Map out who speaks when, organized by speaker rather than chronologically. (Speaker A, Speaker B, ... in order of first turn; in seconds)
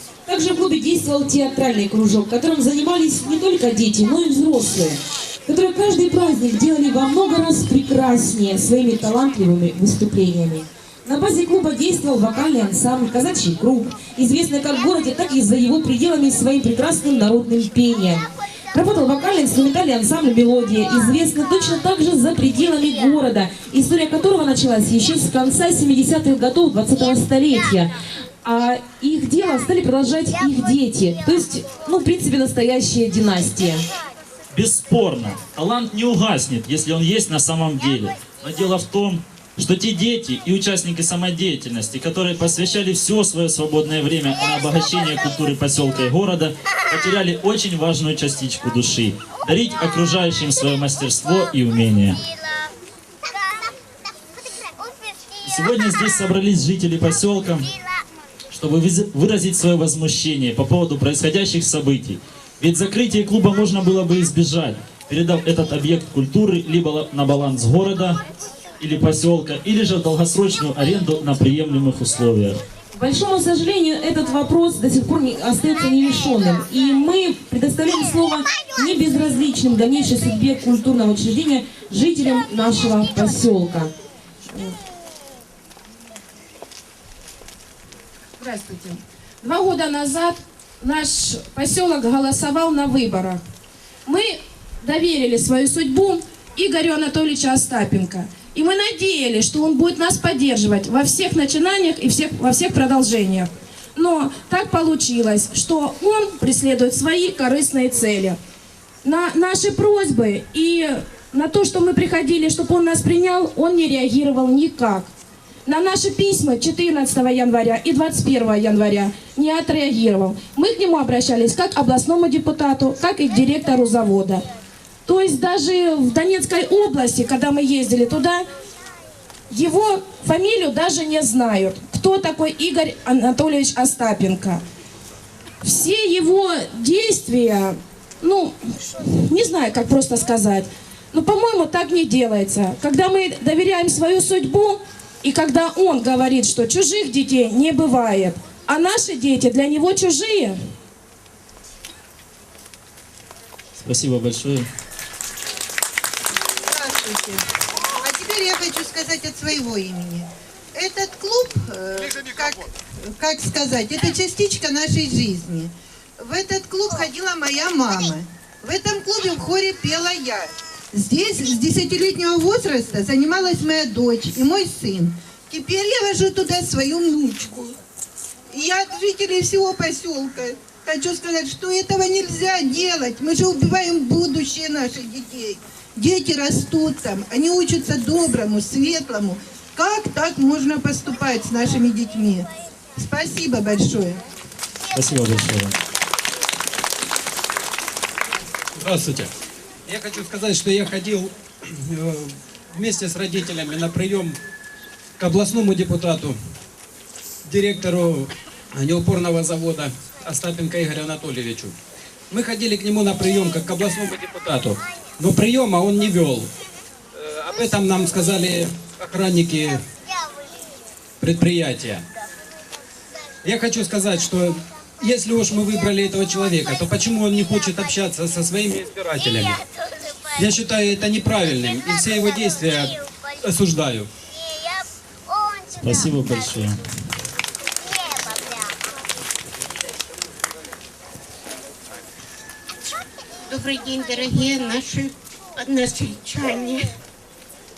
Speaker A: 0.2-33.9, 72.9-83.9
Speaker B: 34.5-52.2, 55.4-57.7, 58.5-68.2, 68.8-72.6, 153.8-154.7, 194.9-195.8, 235.7-236.8
Speaker C: 84.5-84.7, 88.4-93.4, 94.0-108.4, 109.0-115.1, 115.7-124.5, 125.0-128.4, 129.5-134.6, 135.6-150.6
Speaker D: 156.7-157.4, 158.0-177.8, 178.5-194.2
Speaker E: 198.8-199.3, 199.8-204.4, 205.2-206.4, 207.4-211.7, 212.3-216.5, 217.2-219.8, 221.2-222.1, 223.4-229.6, 230.3-234.1
Speaker F: 243.5-246.8